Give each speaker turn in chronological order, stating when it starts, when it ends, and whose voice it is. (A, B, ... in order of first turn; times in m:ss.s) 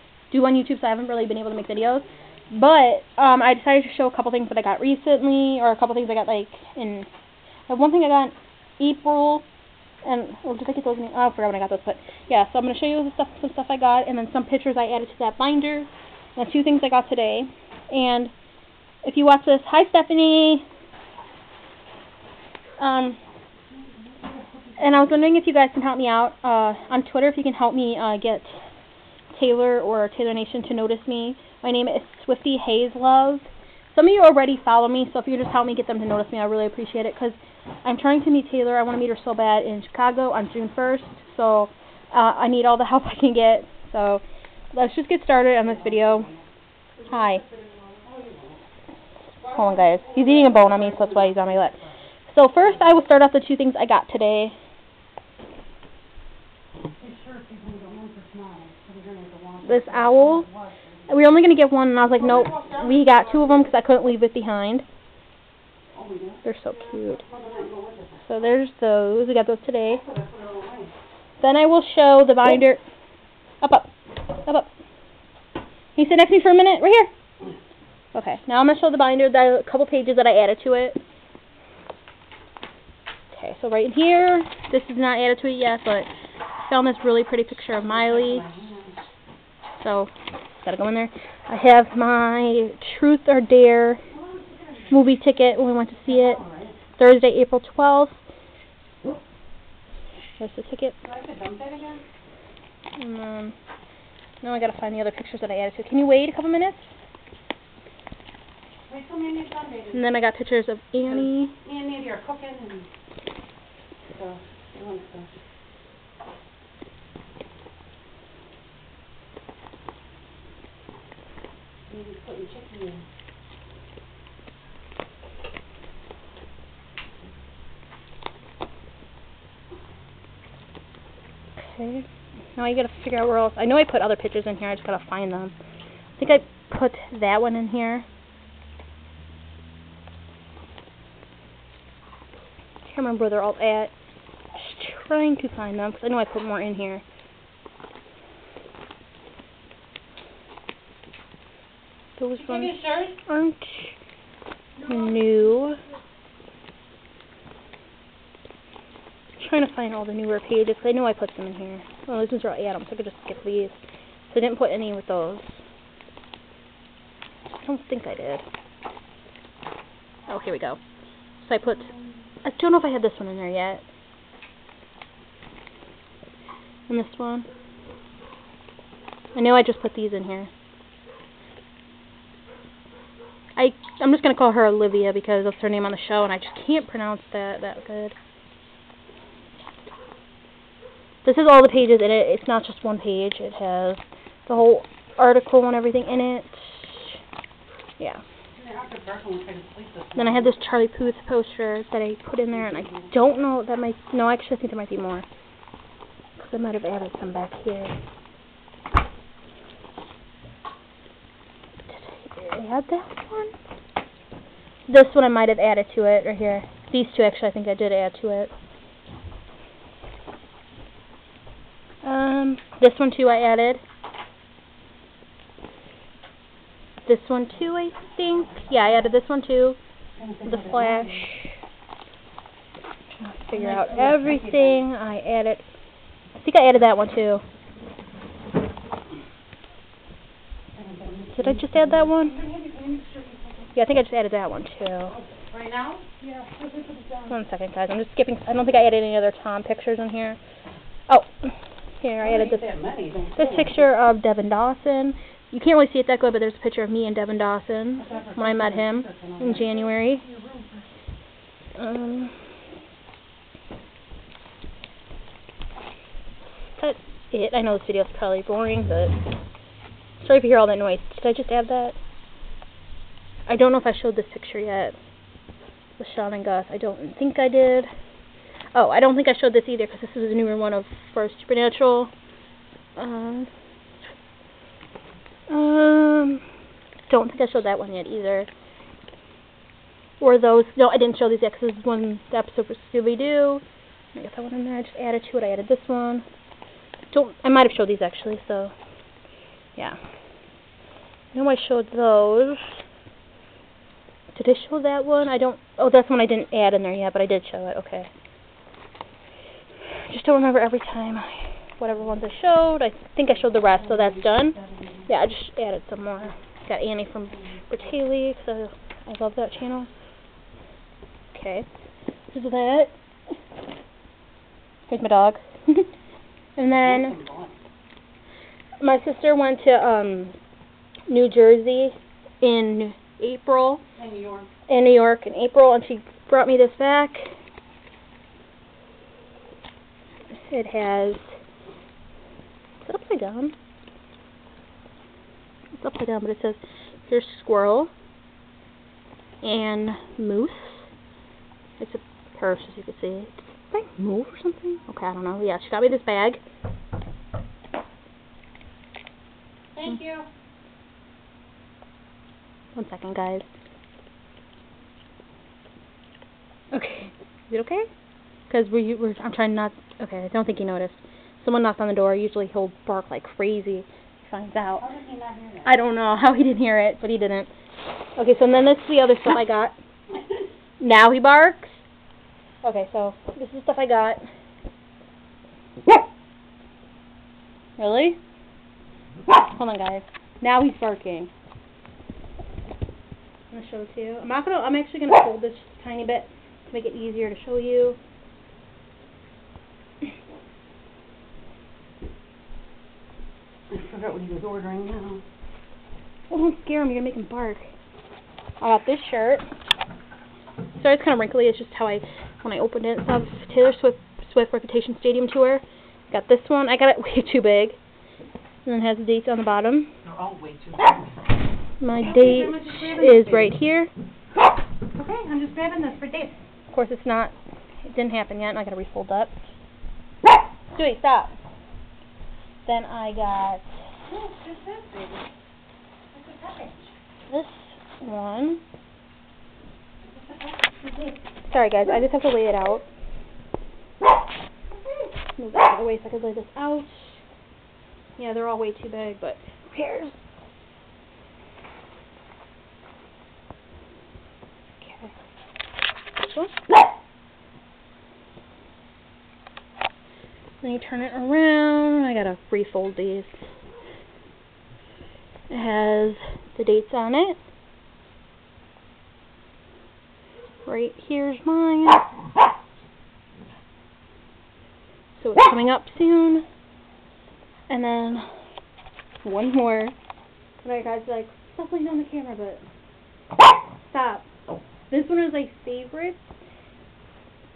0:00.3-0:07.1 A
0:07.7-0:09.4 A
0:10.0-0:18.3 A
0:19.0-0:20.6 A
0:22.8-0:23.2 A
0:23.8-0:25.4 B
0:24.8-0:28.6 A
0:29.3-0:46.3 A
0:45.6-0:46.5 B
0:47.1-0:47.4 A
0:47.4-0:48.6 B
0:49.4-0:51.9 B
0:49.5-0:51.8 A
0:52.3-0:54.5 A
0:57.0-1:01.4 B
0:59.6-1:00.5 A
1:01.1-1:04.8 A
1:02.1-1:03.8 B
1:05.9-1:08.2 B
1:06.4-1:07.2 A
1:08.2-1:10.0 A
1:10.0-1:10.9 B
1:11.4-1:12.8 A
1:13.6-1:14.7 A
1:16.0-1:17.1 A
1:18.1-1:21.0 A
1:23.3-1:26.1 A
1:26.7-1:28.5 A
1:27.7-1:29.0 B
1:29.8-1:34.0 A
1:34.1-1:35.0 B
1:34.9-1:36.4 A
1:36.0-1:36.8 B
1:37.0-1:38.2 A
1:40.4-1:41.0 A
1:41.0-1:42.0 B
1:43.0-1:43.6 A
1:44.4-1:46.9 A
1:48.9-1:50.1 B
1:49.9-1:51.6 A
1:51.0-1:52.9 B
1:54.1-1:55.3 B
2:01.9-2:03.0 B
2:11.6-2:15.6 A
2:16.2-2:18.0 A
2:22.8-2:23.9 A
2:24.5-2:27.0 A
2:32.2-2:33.9 A
2:32.4-2:33.2 B
2:34.8-2:35.8 A
2:39.4-2:43.8 A
2:44.3-2:45.6 A
2:47.6-2:48.4 A
2:50.3-2:50.8 A
2:51.4-2:51.9 A
2:52.4-2:53.8 A
2:56.9-2:57.5 A
2:59.4-3:00.5 A
3:03.6-3:08.2 A
3:11.2-3:17.2 A
3:18.6-3:20.6 B
3:20.2-3:25.2 A
3:22.5-3:23.1 B
3:26.4-3:28.0 A
3:31.9-3:33.5 A
3:34.9-3:38.5 A
3:42.0-3:43.8 A
3:47.1-3:49.8 A
3:50.2-3:51.3 B
3:50.4-3:51.5 A
3:53.2-3:55.6 A
3:53.5-3:54.8 B
3:56.4-3:57.4 A
4:00.7-4:03.7 B
4:01.3-4:02.4 A
4:03.8-4:05.2 A
4:05.1-4:07.4 B
4:07.3-4:10.4 A
4:11.1-4:12.7 A
4:12.2-4:13.8 B
4:13.3-4:20.3 A
4:18.0-4:20.7 B
4:21.8-4:22.4 A
4:26.6-4:29.2 A
4:30.2-4:32.0 A
4:33.5-4:35.0 A
4:36.0-4:37.9 A
4:38.7-4:42.1 A
4:43.0-4:43.5 A
4:45.5-4:46.4 A
4:47.1-4:48.5 A
4:50.2-4:53.6 A
4:54.2-4:56.2 A
4:57.1-4:58.7 A
5:01.3-5:02.8 A
5:04.3-5:08.1 A
5:09.9-5:19.9 A
5:13.6-5:15.1 B
5:21.3-5:21.7 A
5:22.3-5:22.9 A
5:24.9-5:25.9 A
5:26.6-5:27.2 A
5:26.8-5:27.6 B
5:28.8-5:30.4 A
5:31.1-5:33.8 A
5:34.0-5:34.5 B
5:34.7-5:37.3 A
5:40.3-5:41.4 A
5:42.8-5:43.5 A
5:45.8-5:47.9 A
5:49.4-5:50.9 A
5:51.8-5:56.4 A
5:59.8-6:00.3 B
6:02.8-6:03.5 A
6:06.7-6:07.9 A
6:08.5-6:14.9 A
6:14.8-6:15.8 B
6:15.6-6:17.5 A
6:18.2-6:19.8 A
6:20.8-6:21.8 A
6:22.6-6:24.2 A
6:27.8-6:28.2 A
6:29.4-6:31.3 A
6:33.5-6:38.0 A
6:43.7-6:45.2 B
6:46.3-6:47.7 A
6:48.6-6:49.4 A
6:50.8-6:57.8 A
6:58.7-6:59.9 A
7:00.0-7:01.1 B
7:01.8-7:03.9 A
7:02.0-7:03.6 B
7:05.0-7:06.3 B
7:06.7-7:07.3 A
7:07.8-7:09.3 A
7:10.8-7:11.4 A
7:12.7-7:13.8 A
7:14.1-7:15.3 B
7:16.1-7:16.9 B
7:17.3-7:18.6 A
7:20.0-7:21.2 B
7:21.5-7:22.8 A
7:24.8-7:25.1 B
7:25.4-7:27.2 A
7:28.2-7:30.2 A
7:34.8-7:35.1 A
7:36.2-7:36.5 A
7:40.6-7:43.3 A
7:45.5-7:47.4 A
7:50.6-7:52.1 A
7:55.2-7:56.4 A
7:57.7-7:58.3 A
7:59.2-8:00.0 A
8:00.6-8:02.6 A
8:03.8-8:04.2 A
8:04.9-8:06.2 A